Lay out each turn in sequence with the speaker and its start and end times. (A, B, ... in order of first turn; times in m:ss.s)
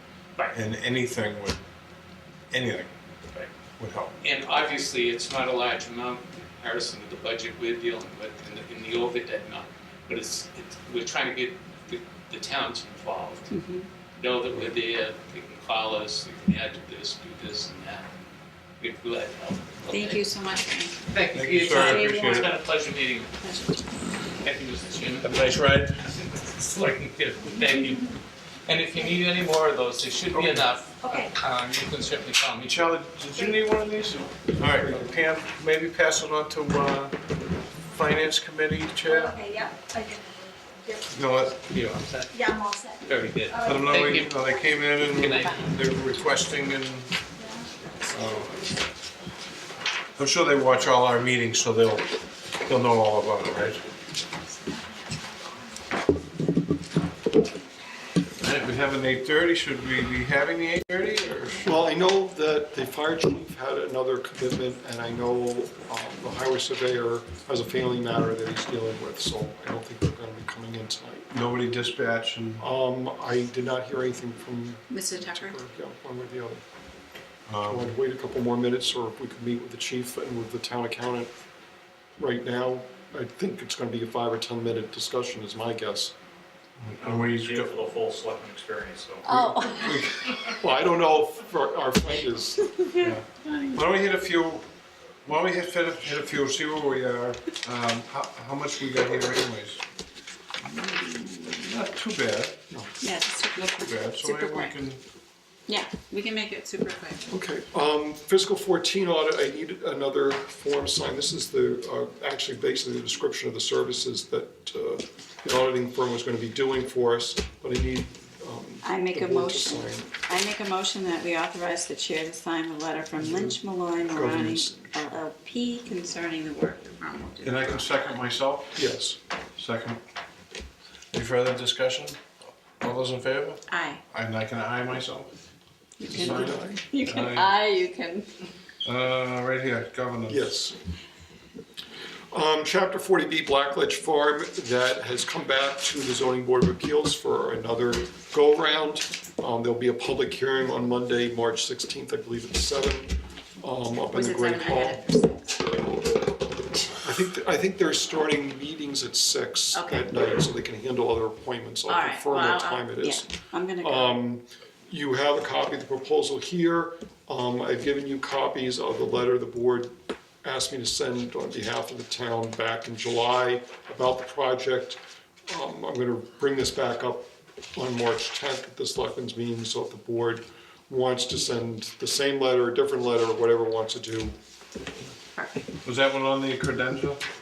0:00.5-0:01.6 A
0:02.5-0:02.9 A
0:03.8-0:04.2 A
0:04.2-0:13.5 B
0:13.5-0:13.9 C
0:14.2-0:18.1 B
0:18.8-0:20.2 B
0:19.9-0:21.0 C
0:21.1-0:23.3 B
0:21.3-0:22.5 A
0:21.7-0:22.6 C
0:23.4-0:24.0 C
0:24.4-0:28.1 B
0:25.2-0:26.0 A
0:27.4-0:27.8 C
0:28.7-0:32.9 B
0:30.3-0:30.7 A
0:32.6-0:37.2 A
0:37.9-0:39.4 A
0:39.1-0:41.2 D
0:41.1-0:41.6 A
0:41.7-0:42.5 B
0:42.3-0:43.8 D
0:43.0-0:44.4 B
0:43.6-0:47.1 A
0:45.1-0:45.7 B
0:47.4-0:48.2 D
0:48.1-0:48.6 A
0:50.2-0:52.1 A
0:52.7-0:53.8 A
0:58.4-1:01.8 A
1:01.6-1:11.3 E
1:11.3-1:12.7 A
1:12.6-1:16.6 E
1:14.9-1:15.6 C
1:17.5-1:17.9 A
1:17.6-1:21.3 E
1:22.2-1:26.1 E
1:26.8-1:27.8 A
1:27.0-1:29.6 F
1:29.3-1:30.0 C
1:29.3-1:29.9 A
1:29.8-1:32.8 E
1:32.8-1:33.8 C
1:33.0-1:34.7 A
1:35.2-1:39.8 A
1:41.1-1:42.6 A
1:43.0-1:44.8 C
1:43.6-1:45.0 A
1:45.7-1:47.3 C
1:47.3-2:00.1 E
1:58.8-2:08.2 C
2:03.2-2:03.6 E
2:04.1-2:05.0 E
2:07.4-2:08.8 A
2:08.8-2:09.2 E
2:09.6-2:10.0 A
2:11.1-2:15.4 A
2:13.7-2:14.0 C
2:16.0-2:18.3 C
2:16.1-2:16.8 E
2:16.1-2:17.6 A
2:18.8-2:20.5 A
2:20.3-2:20.8 E
2:22.3-2:35.0 E
2:34.1-2:35.7 C
2:37.0-3:04.4 E
2:39.7-2:40.1 C
2:41.9-2:44.2 C
3:05.4-3:05.7 C
3:05.8-3:07.2 A